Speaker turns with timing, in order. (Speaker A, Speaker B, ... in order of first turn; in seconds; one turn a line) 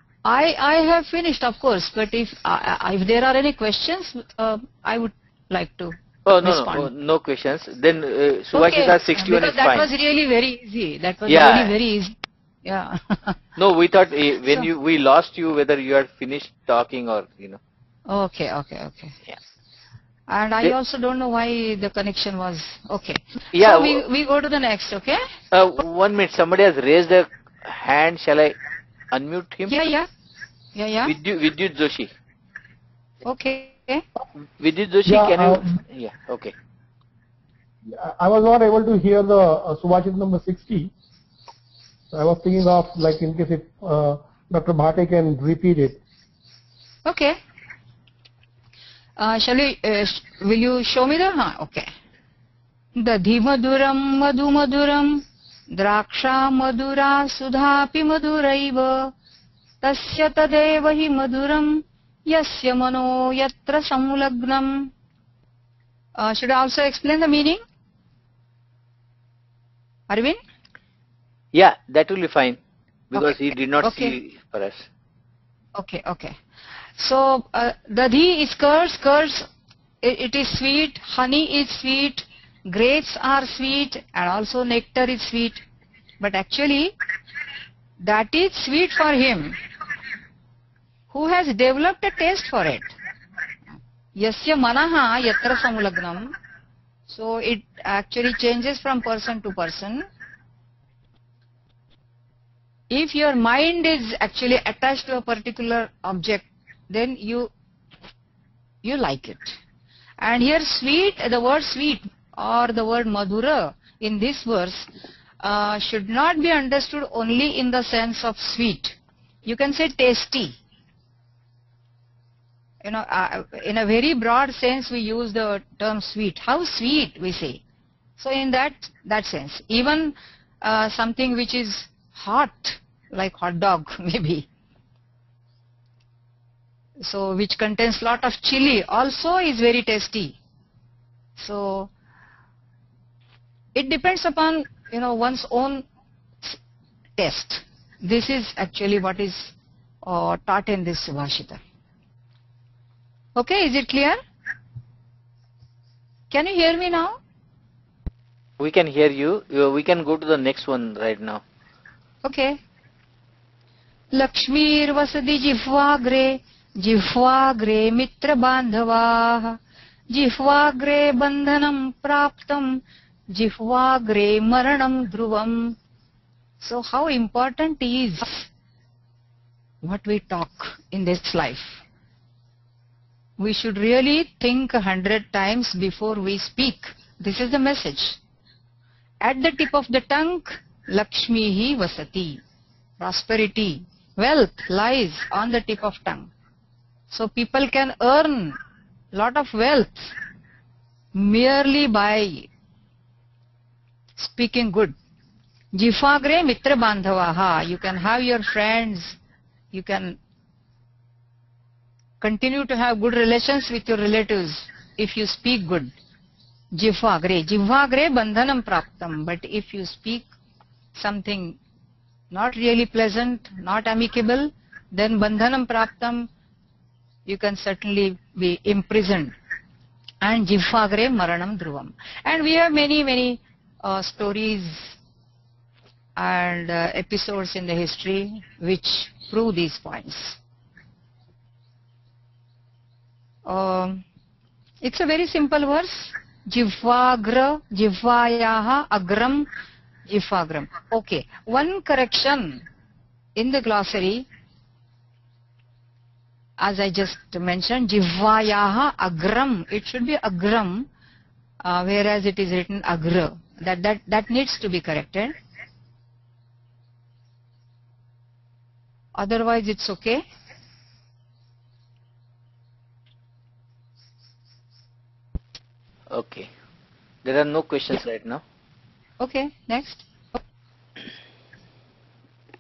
Speaker A: 0.2-6.9
Speaker B: 6.2-9.9
Speaker A: 8.5-13.4
Speaker B: 11.3-11.8
Speaker B: 13.6-17.6
Speaker A: 18.1-19.2
Speaker A: 20.3-25.2
Speaker B: 23.5-24.0
Speaker B: 25.5-28.6
Speaker B: 29.1-29.8
Speaker A: 29.7-30.1
Speaker A: 30.8-31.1
Speaker B: 31.1-32.1
Speaker A: 33.2-34.0
Speaker B: 34.6-36.5
Speaker C: 35.1-35.8
Speaker C: 37.9-40.9
Speaker C: 42.1-46.0
Speaker A: 47.0-47.4
Speaker A: 49.2-51.9
Speaker A: 53.0-59.1
Speaker A: 59.8-64.9
Speaker A: 66.2-67.6
Speaker A: 70.1-70.4
Speaker B: 71.5-72.6
Speaker B: 73.1-74.9
Speaker A: 73.2-74.1
Speaker A: 75.8-76.4
Speaker A: 77.0-79.5
Speaker A: 80.0-85.6
Speaker A: 86.2-86.9
Speaker A: 88.0-89.6
Speaker A: 91.1-92.9
Speaker A: 94.2-96.3
Speaker A: 97.1-100.1
Speaker A: 102.9-107.5
Speaker A: 108.8-109.6
Speaker A: 110.2-114.9
Speaker A: 115.4-120.6
Speaker A: 122.8-127.6
Speaker A: 128.2-134.5
Speaker A: 137.0-140.4
Speaker A: 141.4-141.9
Speaker A: 143.8-145.8
Speaker A: 147.2-151.6
Speaker A: 153.4-154.2
Speaker A: 156.3-157.2
Speaker B: 158.6-161.4
Speaker A: 162.2-162.6
Speaker A: 164.1-169.6
Speaker A: 170.1-172.8
Speaker A: 173.3-175.8
Speaker A: 176.6-178.5
Speaker A: 179.8-181.8
Speaker A: 183.4-188.2
Speaker A: 189.2-192.4
Speaker A: 193.0-196.3
Speaker A: 197.1-198.6
Speaker A: 199.1-200.1
Speaker A: 201.2-202.5
Speaker A: 204.2-204.9
Speaker A: 205.7-209.2
Speaker A: 209.7-210.2
Speaker A: 212.2-215.9
Speaker A: 216.8-220.3
Speaker A: 221.0-221.6
Speaker A: 222.3-226.3
Speaker A: 227.3-229.3
Speaker A: 230.2-235.0
Speaker A: 236.2-240.4
Speaker A: 243.5-244.0
Speaker A: 244.8-249.5
Speaker A: 250.1-252.6
Speaker A: 253.4-254.2
Speaker A: 256.6-260.9
Speaker A: 261.6-265.4
Speaker A: 269.1-270.2
Speaker B: 276.1-276.5
Speaker B: 277.2-278.4
Speaker A: 279.2-280.1